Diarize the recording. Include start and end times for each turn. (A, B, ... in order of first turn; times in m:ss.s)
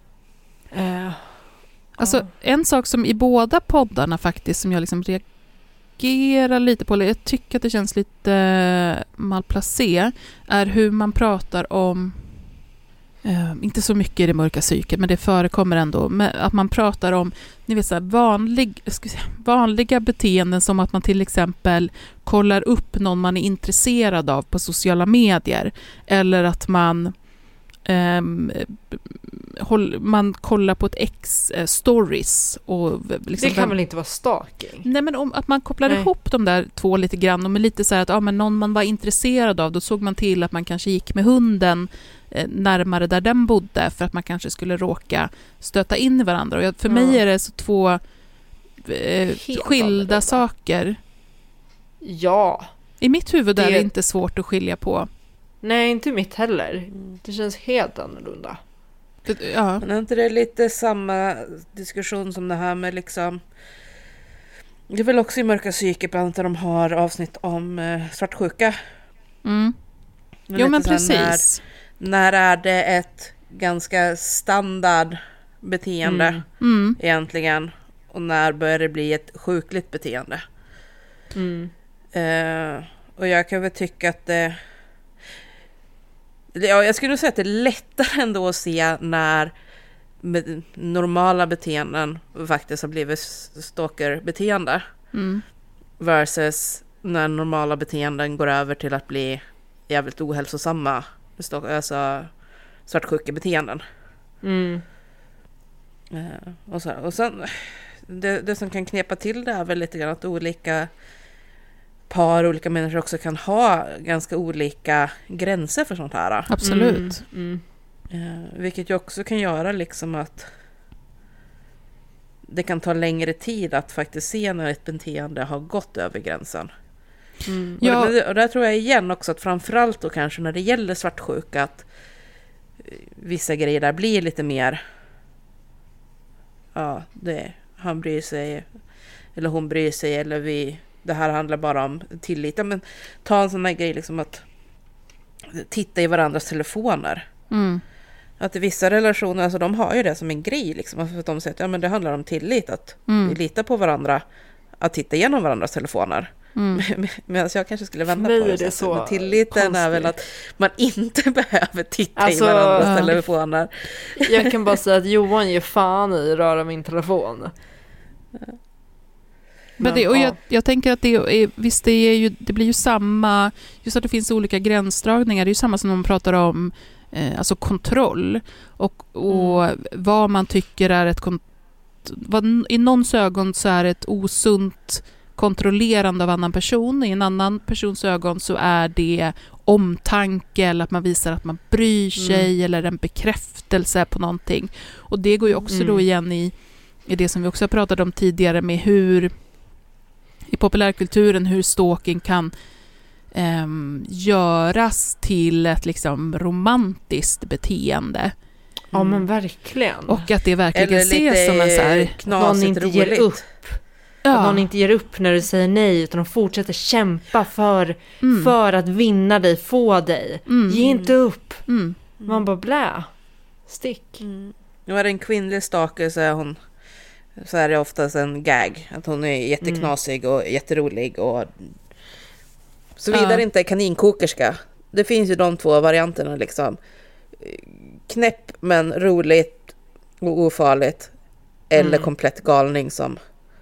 0:00.7-0:02.2 A
0:02.0-0:05.3 B
0:06.0-0:12.5 B
0:13.2-0:27.1 B
0:27.8-0:33.8 B
0:33.4-0:34.9 A
0:34.8-0:48.0 B
0:46.9-0:47.2 A
0:48.8-0:51.0 B
0:49.4-0:50.4 A
0:52.0-0:52.7 A
0:53.0-0:55.1 B
0:53.6-0:53.9 A
0:55.6-0:58.6 A
0:59.3-0:59.8 B
0:59.8-1:03.4 C
1:04.9-1:08.8 C
1:09.4-1:09.8 B
1:10.5-1:11.5 C
1:10.6-1:11.6 B
1:12.0-1:20.4 C
1:16.0-1:16.4 A
1:16.6-1:17.0 B
1:21.4-1:21.7 A
1:22.1-1:24.6 C
1:26.5-1:29.5 C
1:30.2-1:34.9 C
1:35.1-1:35.4 B
1:36.0-1:42.3 C
1:42.9-1:43.8 C
1:44.4-1:44.8 A
1:46.1-1:50.9 C
1:52.1-1:56.5 C
1:56.5-1:57.2 B
1:56.6-1:57.6 A
1:58.1-2:00.5 C
2:02.5-2:06.7 C
2:07.5-2:07.8 A
2:07.8-2:08.1 B
2:07.8-2:11.9 C
2:12.9-2:14.8 C
2:16.8-2:18.7 C
2:19.4-2:24.4 C
2:25.5-2:27.3 C
2:27.5-2:27.8 B
2:28.4-2:34.2 C
2:33.1-2:33.4 B
2:34.8-2:44.5 C
2:36.6-2:36.8 B
2:38.1-2:40.1 A
2:42.2-2:43.0 A
2:42.8-2:43.2 B
2:44.2-2:47.5 A
2:49.8-3:01.4 B
2:49.8-2:50.4 A
3:02.0-3:16.5 B
3:12.2-3:12.5 A
3:15.7-3:16.0 A
3:17.0-3:19.3 B
3:20.5-3:22.5 B
3:23.3-3:28.3 B
3:28.9-3:29.2 C
3:28.9-3:30.2 A
3:30.1-3:32.2 B
3:30.7-3:33.4 C
3:32.3-3:33.8 A
3:34.2-3:34.6 B
3:34.3-3:41.7 A
3:38.2-3:38.5 B
3:40.5-3:40.8 B
3:40.7-3:41.1 C
3:41.7-3:42.0 B
3:42.2-3:43.1 A
3:43.7-3:44.2 A
3:44.2-3:46.6 C
3:47.4-3:51.5 C
3:49.6-3:49.9 A
3:53.0-3:56.8 C
3:53.1-3:53.4 B
3:57.4-4:01.1 C
4:01.7-4:03.2 C
4:01.8-4:02.1 A